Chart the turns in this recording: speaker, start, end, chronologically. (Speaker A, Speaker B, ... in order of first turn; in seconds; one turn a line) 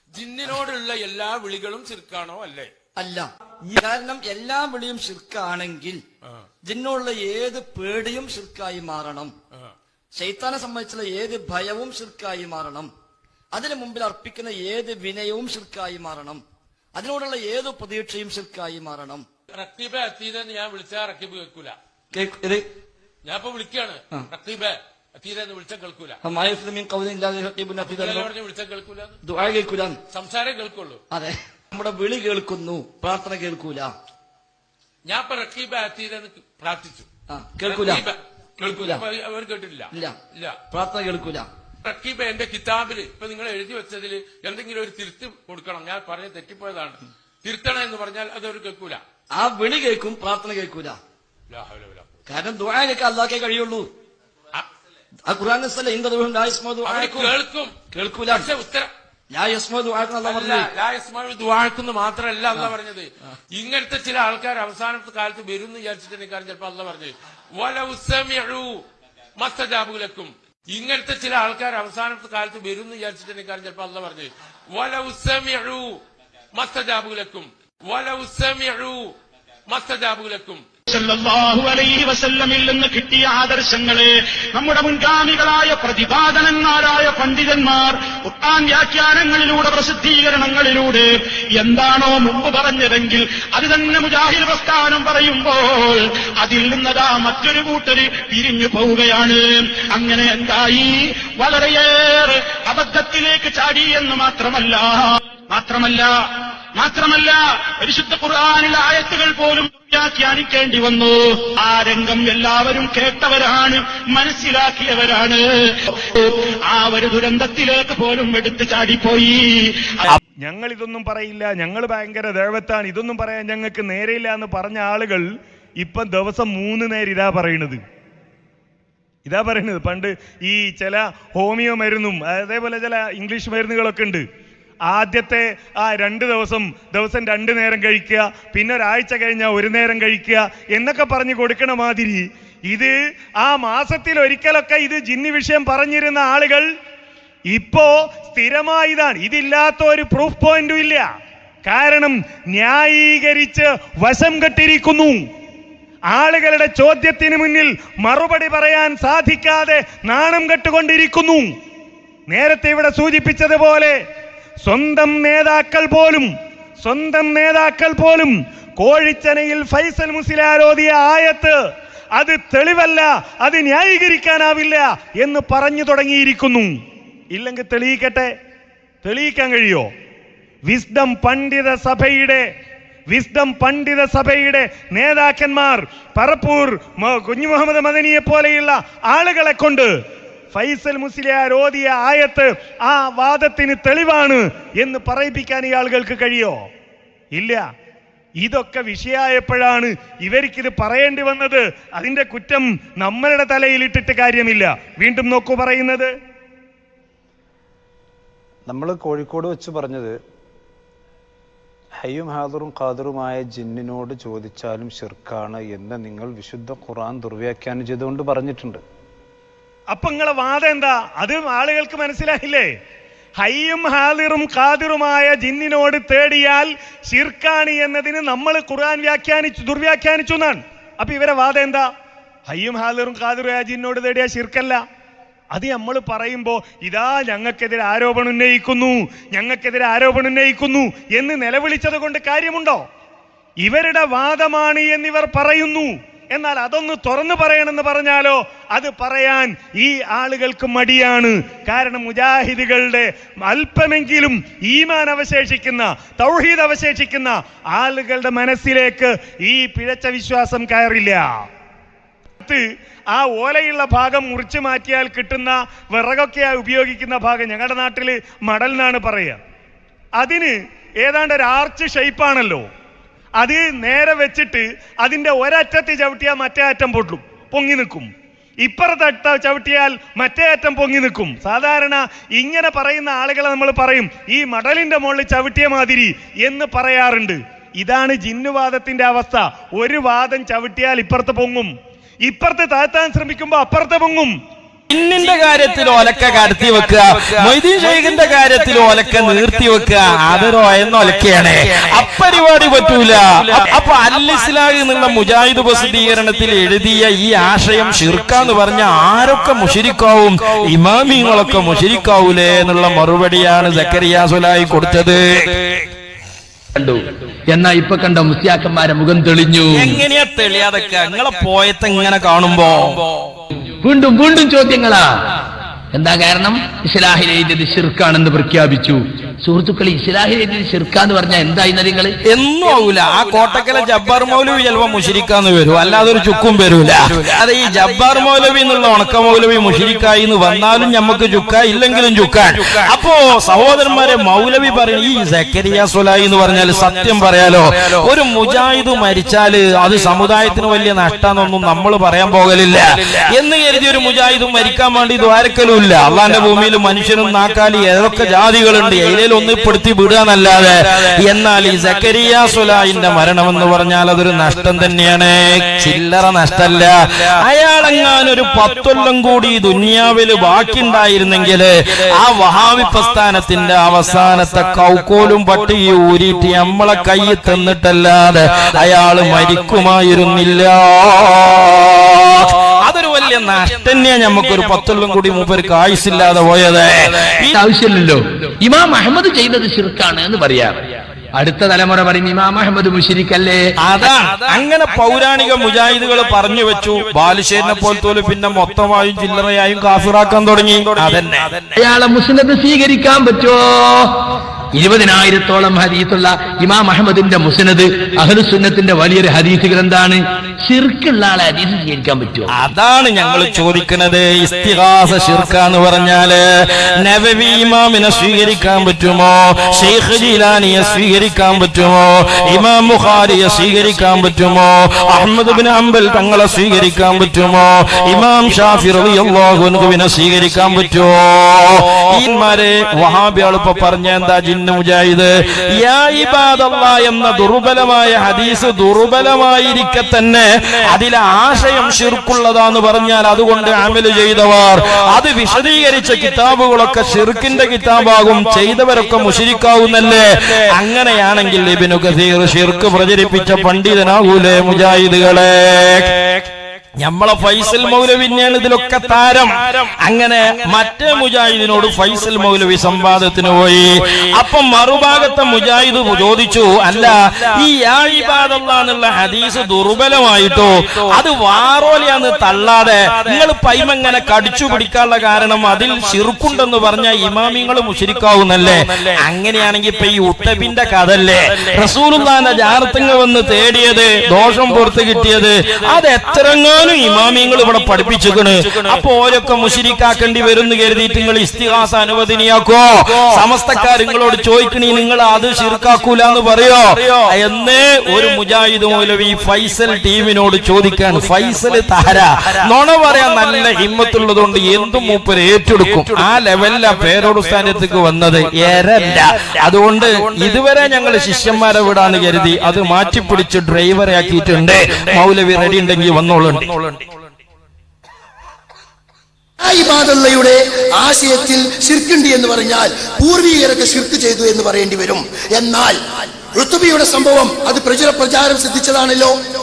Speaker A: 0.1-2.7
Speaker B: 3.0-6.0
Speaker B: 6.6-9.3
Speaker B: 10.1-12.9
Speaker B: 13.5-16.4
Speaker B: 16.9-19.3
Speaker A: 19.5-21.8
Speaker B: 22.1-22.7
Speaker A: 23.2-26.2
Speaker B: 26.2-28.3
Speaker A: 27.8-29.1
Speaker B: 29.2-30.0
Speaker A: 30.1-31.0
Speaker B: 31.1-33.9
Speaker A: 35.1-37.1
Speaker B: 37.3-38.0
Speaker A: 37.6-40.6
Speaker B: 38.7-39.0
Speaker B: 40.7-41.5
Speaker A: 41.9-49.0
Speaker B: 49.3-51.0
Speaker A: 51.5-52.1
Speaker B: 52.3-53.9
Speaker B: 55.3-57.4
Speaker A: 56.9-57.8
Speaker B: 57.9-58.5
Speaker A: 58.3-58.9
Speaker B: 59.3-60.7
Speaker A: 60.2-68.8
Speaker A: 69.4-76.0
Speaker A: 76.5-79.1
Speaker A: 79.7-80.6
Speaker C: 80.9-106.1
Speaker C: 106.8-120.2
Speaker D: 120.4-125.3
Speaker D: 125.8-127.8
Speaker D: 129.2-134.3
Speaker D: 134.9-146.7
Speaker D: 147.5-151.1
Speaker D: 151.7-155.2
Speaker D: 156.1-161.5
Speaker D: 162.3-164.0
Speaker D: 164.7-166.3
Speaker D: 166.8-171.6
Speaker D: 172.2-176.7
Speaker D: 177.3-178.3
Speaker D: 179.0-179.9
Speaker D: 180.7-182.5
Speaker D: 183.1-189.9
Speaker D: 190.5-196.7
Speaker D: 197.3-197.7
Speaker D: 198.4-206.1
Speaker E: 208.7-210.2
Speaker E: 212.0-218.8
Speaker D: 219.9-222.7
Speaker D: 223.4-231.9
Speaker D: 232.5-234.8
Speaker D: 235.5-242.8
Speaker D: 243.6-261.4
Speaker D: 262.4-269.4
Speaker D: 270.2-272.7
Speaker D: 273.4-278.1
Speaker D: 278.6-291.7
Speaker D: 292.2-294.3
Speaker F: 294.9-315.8
Speaker G: 316.8-320.0
Speaker F: 319.7-323.1
Speaker G: 323.8-325.1
Speaker G: 325.9-332.2
Speaker F: 332.3-387.6
Speaker G: 387.5-393.6
Speaker F: 393.8-401.6
Speaker G: 401.8-412.5
Speaker F: 412.5-456.3
Speaker F: 457.0-517.0
Speaker H: 519.6-529.4